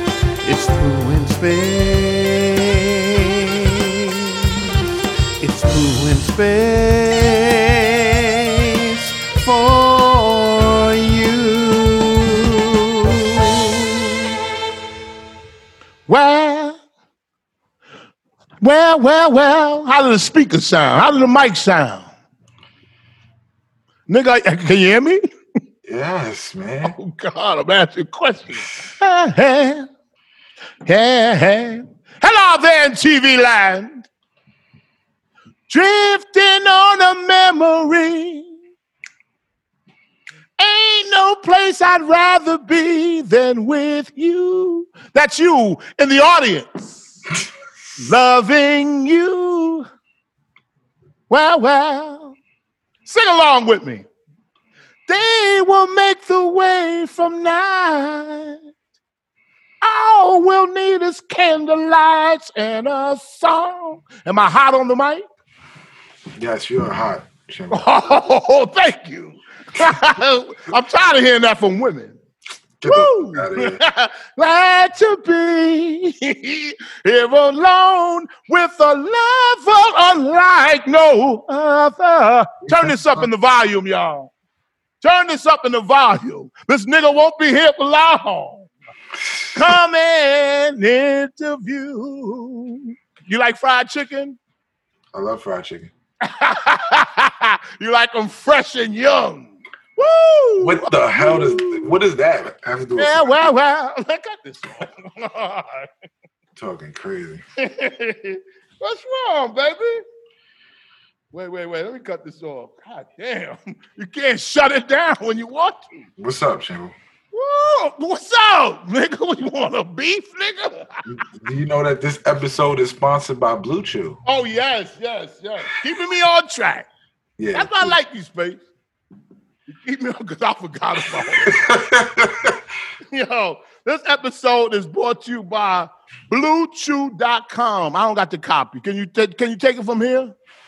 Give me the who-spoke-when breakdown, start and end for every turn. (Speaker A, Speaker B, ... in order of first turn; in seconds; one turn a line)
Speaker A: 0.4-3.9
Speaker A: 4.4-4.7
Speaker A: 5.4-14.3
Speaker B: 16.1-16.8
Speaker B: 18.6-22.1
Speaker B: 24.1-25.2
Speaker C: 25.9-27.0
Speaker B: 26.8-29.9
Speaker B: 30.9-34.1
Speaker B: 35.7-38.6
Speaker B: 40.6-47.2
Speaker B: 48.0-49.9
Speaker B: 51.3-52.4
Speaker B: 53.0-54.1
Speaker B: 55.1-58.6
Speaker B: 59.8-65.2
Speaker C: 66.4-67.9
Speaker B: 67.7-72.2
Speaker C: 72.8-73.8
Speaker B: 72.9-84.3
Speaker C: 82.7-83.3
Speaker B: 85.0-88.7
Speaker B: 89.5-94.4
Speaker C: 95.1-95.9
Speaker B: 96.2-101.9
Speaker C: 100.6-103.4
Speaker B: 103.0-105.9
Speaker C: 106.6-107.4
Speaker B: 107.6-110.0
Speaker B: 111.3-116.1
Speaker C: 116.2-117.0
Speaker B: 117.3-121.0
Speaker C: 121.1-124.2
Speaker B: 124.3-126.9
Speaker C: 127.4-128.0
Speaker B: 127.5-128.6
Speaker B: 129.7-131.6
Speaker C: 131.2-132.6
Speaker B: 133.1-140.3